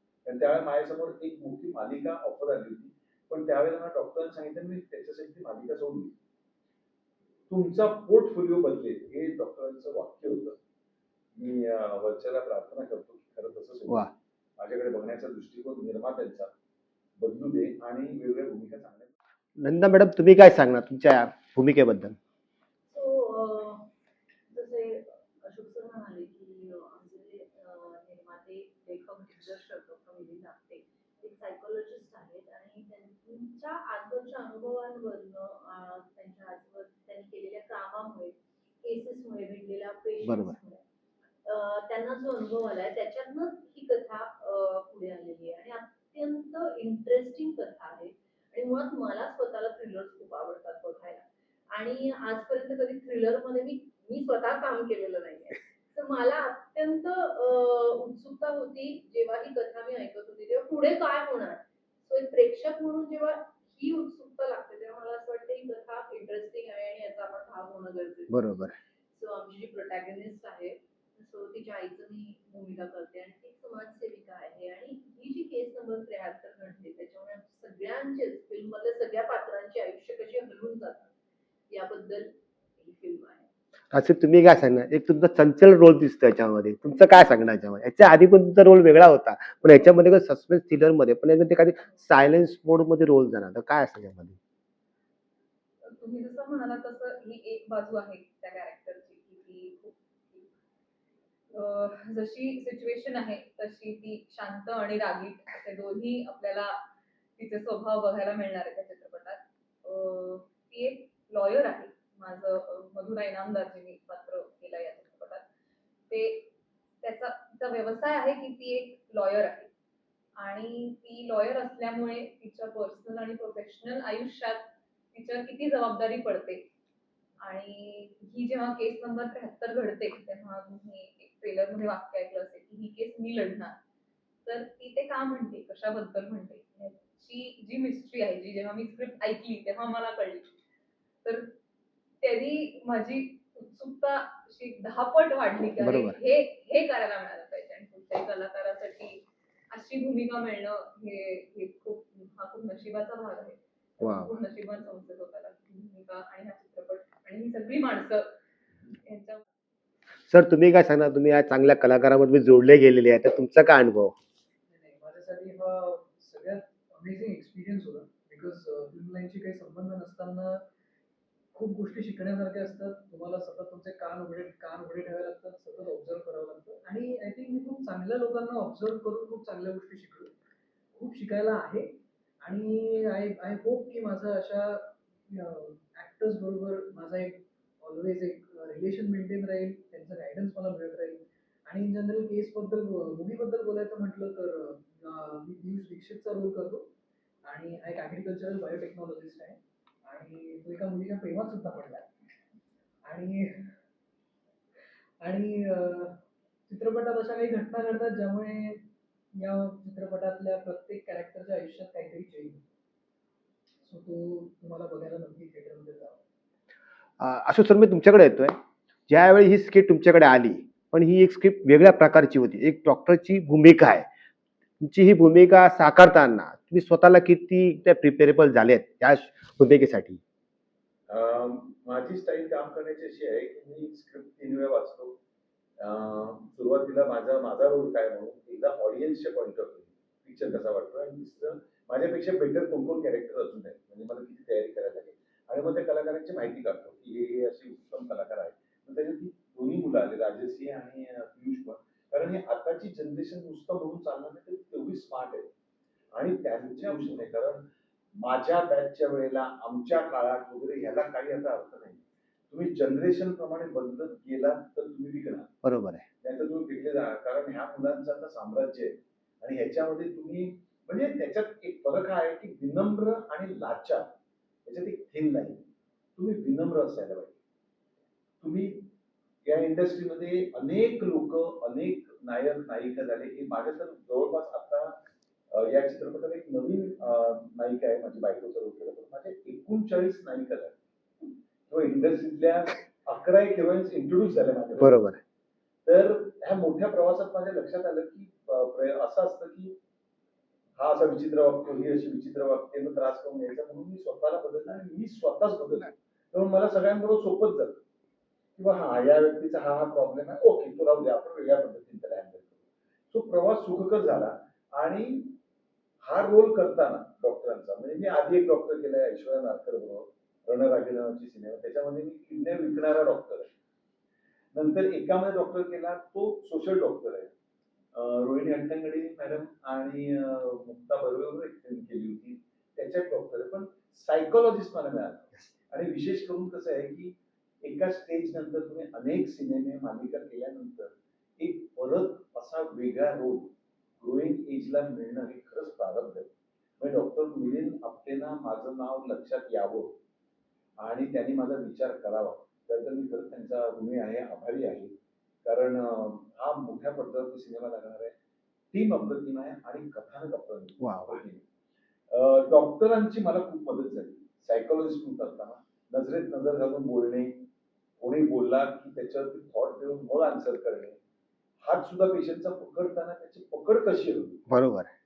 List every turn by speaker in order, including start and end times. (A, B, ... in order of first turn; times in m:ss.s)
0:00.3-0:06.1 A
0:07.5-0:10.6 A
0:11.4-0:16.5 A
0:17.2-0:19.1 A
0:19.6-0:22.2 B
0:22.9-0:23.9 C
0:24.5-0:40.8 C
0:40.2-0:40.5 B
0:41.4-1:08.4 C
1:08.3-1:08.8 B
1:09.1-1:21.1 C
1:21.7-1:23.5 C
1:23.9-1:34.4 B
1:35.8-1:40.5 D
1:41.5-1:46.8 D
1:47.4-1:55.4 D
1:56.1-1:56.5 D
1:57.0-1:59.7 D
2:00.4-2:06.7 D
2:07.4-2:13.8 D
2:14.5-2:20.5 D
2:21.2-2:21.5 D
2:22.2-2:38.3 D
2:25.8-2:26.2 B
2:34.0-2:34.3 B
2:39.0-2:39.4 D
2:40.3-2:44.2 B
2:44.7-2:50.6 E
2:51.5-3:00.3 E
3:01.0-3:16.9 E
3:17.4-3:22.1 E
3:23.0-3:23.7 E
3:25.2-3:32.6 E
3:33.8-3:36.2 E
3:37.2-3:38.6 B
3:39.1-3:44.1 B
3:44.8-3:50.2 B
3:51.1-3:55.2 A
3:55.8-4:15.5 A
4:16.2-4:17.7 A
4:18.2-4:25.5 A
4:25.6-4:26.1 B
4:26.2-4:34.1 A
4:34.7-4:35.6 A
4:36.2-4:37.4 A
4:38.4-4:38.9 A
4:39.5-4:45.0 A
4:45.5-4:55.1 A
4:54.8-4:55.2 B
4:55.9-4:59.8 A
5:00.8-5:07.8 A
5:08.6-5:12.6 A
5:13.1-5:15.4 A
5:16.0-5:23.5 A
5:24.5-5:27.3 A
5:27.9-5:49.9 A
5:50.8-5:54.9 A
5:55.4-5:58.1 A
5:58.7-6:01.4 A
6:00.8-6:01.2 B
6:02.1-6:07.4 A
6:08.0-6:11.0 A
6:11.6-6:14.4 A
6:14.5-6:14.9 B